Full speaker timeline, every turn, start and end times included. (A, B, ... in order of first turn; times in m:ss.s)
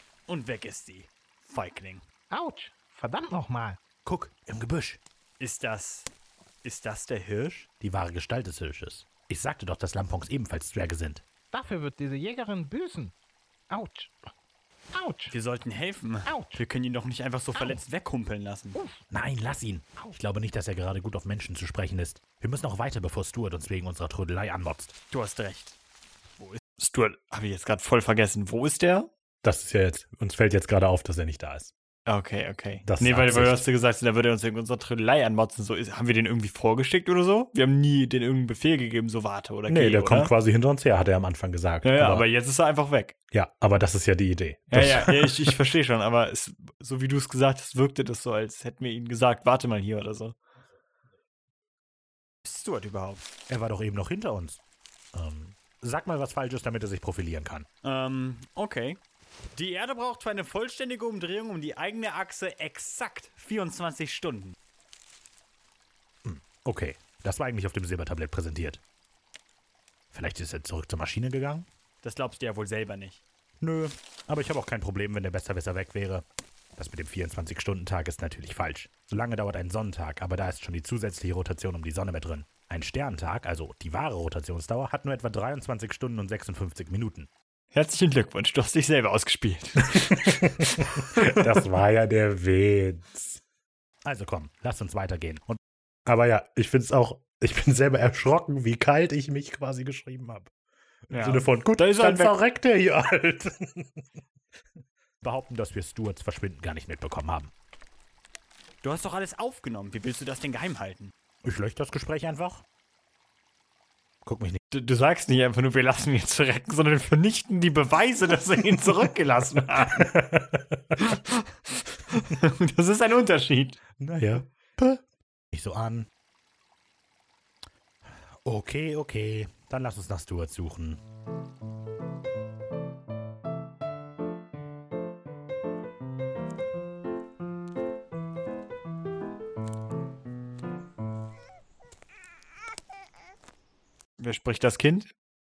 0:00.3-0:02.0 A
0:02.3-0:03.8 B
0:04.0-0:05.0 C
0:05.4-0:06.1 A
0:06.6-0:07.7 A
0:07.8-0:11.2 C
0:11.5-0:13.1 B
0:13.7-0:14.2 B
0:14.9-0:15.3 B
0:15.3-0:18.8 A
0:16.2-0:16.6 B
0:17.5-0:17.8 B
0:18.7-0:19.0 B
0:19.1-0:24.9 C
0:25.1-0:25.8 A
0:26.4-0:29.1 A
0:29.4-0:31.7 C
0:32.0-0:40.3 A
0:32.8-0:33.6 C
0:39.7-0:42.2 C
0:41.8-0:43.1 A
0:43.3-0:45.5 C
0:44.7-0:50.4 A
0:52.4-0:53.2 A
0:53.5-0:54.6 C
0:55.1-0:57.7 C
0:57.8-0:59.0 A
0:59.5-1:04.6 A
1:06.2-1:08.8 C
1:10.1-1:11.7 C
1:12.0-1:13.2 A
1:13.6-1:16.2 C
1:16.8-1:27.3 C
1:27.7-1:31.6 A
1:29.9-1:33.4 C
1:34.0-1:40.5 C
1:41.1-1:44.0 C
1:41.1-1:42.3 A
1:45.2-1:47.5 C
1:48.8-1:51.1 A
1:51.4-1:52.6 C
1:54.2-1:54.6 C
1:54.7-2:00.1 A
1:58.8-2:01.0 C
2:01.0-2:03.8 A
2:04.0-2:06.1 C
2:08.4-2:11.0 C
2:24.2-2:25.1 A